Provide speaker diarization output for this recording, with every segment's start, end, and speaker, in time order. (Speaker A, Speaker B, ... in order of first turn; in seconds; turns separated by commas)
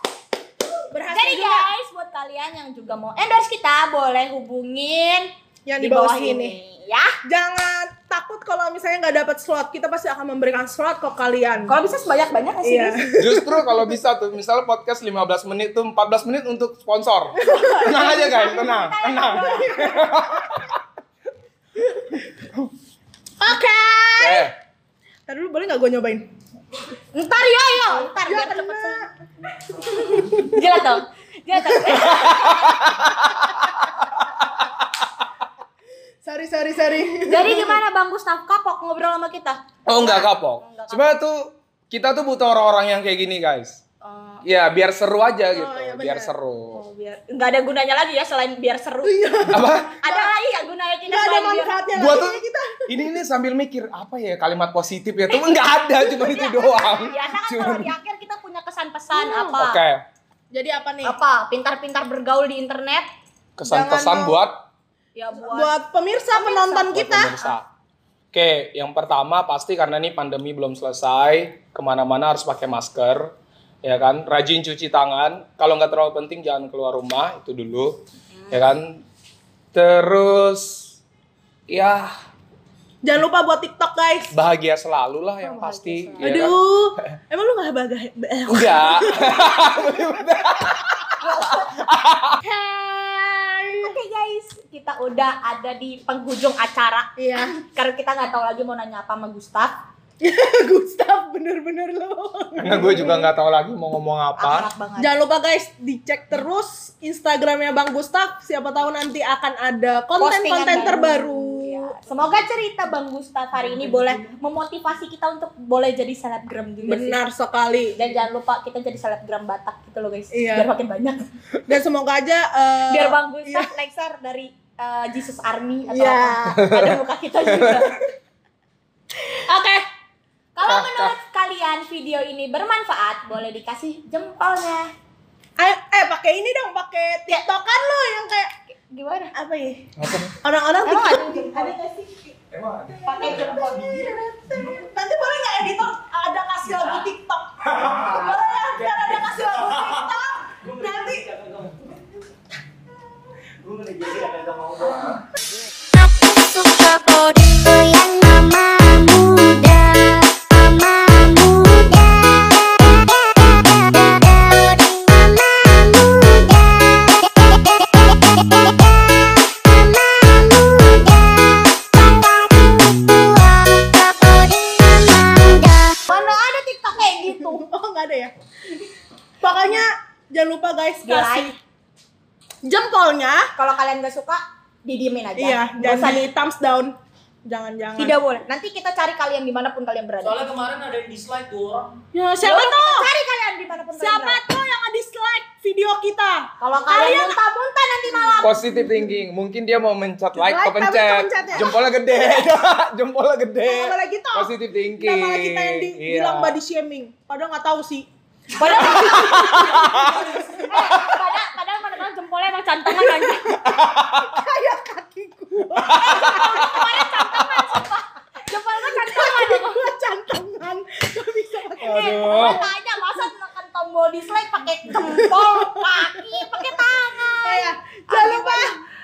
Speaker A: 0.9-1.7, Speaker B: 1.1-7.2, Speaker A: 5.7-6.6, Speaker A: 7.2-11.7, Speaker B: 11.7-13.1, Speaker A: 12.6-13.7, Speaker C: 13.2-20.8, Speaker B: 17.6-19.9, Speaker A: 19.6-20.0, Speaker A: 23.4-24.5, Speaker C: 24.2-24.5, Speaker A: 25.3-26.3, Speaker B: 27.1-29.0, Speaker A: 28.0-29.1, Speaker A: 29.8-30.6, Speaker B: 30.2-32.8, Speaker C: 32.0-33.7, Speaker C: 34.2-34.7, Speaker A: 36.2-37.8, Speaker B: 37.3-41.1, Speaker C: 39.9-43.8, Speaker B: 44.0-44.4, Speaker C: 44.4-46.8, Speaker A: 45.5-46.3, Speaker B: 46.8-49.5, Speaker A: 49.0-50.3, Speaker C: 49.5-49.9, Speaker B: 50.0-51.9, Speaker A: 51.1-52.9, Speaker C: 52.0-57.9, Speaker B: 55.3-59.8, Speaker A: 59.1-59.6, Speaker C: 59.6-60.0, Speaker A: 60.5-61.1, Speaker B: 61.0-63.1, Speaker C: 63.6-64.5, Speaker A: 63.6-64.4, Speaker B: 65.2-65.8, Speaker A: 65.4-67.3, Speaker B: 66.3-67.5, Speaker C: 66.9-67.7, Speaker C: 68.3-73.3, Speaker C: 73.8-79.0, Speaker C: 79.7-80.8, Speaker C: 81.7-82.2, Speaker A: 83.0-84.3, Speaker C: 84.3-86.5, Speaker B: 85.4-86.5, Speaker A: 86.2-89.7, Speaker C: 88.5-92.4, Speaker B: 91.2-91.7, Speaker A: 92.5-94.0, Speaker B: 93.8-99.7, Speaker A: 97.2-97.5, Speaker A: 100.2-103.3, Speaker C: 102.6-104.7, Speaker B: 104.4-105.2, Speaker A: 105.0-112.0, Speaker B: 110.2-117.2, Speaker A: 116.8-118.0, Speaker B: 118.0-121.2, Speaker A: 120.3-120.7, Speaker A: 121.7-123.7, Speaker B: 122.9-128.0, Speaker A: 125.9-126.4, Speaker C: 126.5-127.9, Speaker B: 129.2-129.9, Speaker B: 130.6-134.9, Speaker C: 130.7-131.1, Speaker A: 135.6-138.5, Speaker B: 138.7-139.3, Speaker A: 139.3-139.9, Speaker C: 140.0-140.3, Speaker A: 140.4-142.3, Speaker B: 140.8-141.9, Speaker C: 142.5-143.5, Speaker A: 142.9-151.3, Speaker B: 143.1-144.2, Speaker C: 147.7-148.2, Speaker D: 150.6-152.0, Speaker D: 153.6-155.1, Speaker C: 154.9-155.2, Speaker E: 155.9-176.0, Speaker B: 176.1-177.7, Speaker A: 177.4-178.3, Speaker A: 179.4-181.6, Speaker B: 181.1-181.6, Speaker A: 182.6-183.5, Speaker B: 183.6-186.2, Speaker A: 185.4-186.9, Speaker A: 187.5-188.1, Speaker B: 188.0-190.4, Speaker D: 190.2-191.9, Speaker A: 192.1-193.1, Speaker B: 192.4-194.4, Speaker A: 194.0-197.4, Speaker B: 196.6-198.6, Speaker C: 198.4-206.6, Speaker A: 200.4-201.7, Speaker A: 203.6-208.1, Speaker B: 208.6-210.0, Speaker A: 208.6-211.1, Speaker C: 208.9-210.3, Speaker B: 210.7-213.6, Speaker C: 210.9-211.2, Speaker A: 212.9-216.8, Speaker C: 213.6-214.3, Speaker C: 215.8-217.4, Speaker B: 215.9-219.9, Speaker A: 218.5-222.6, Speaker C: 221.8-222.6, Speaker B: 221.9-228.8, Speaker A: 224.9-226.4, Speaker A: 227.4-228.7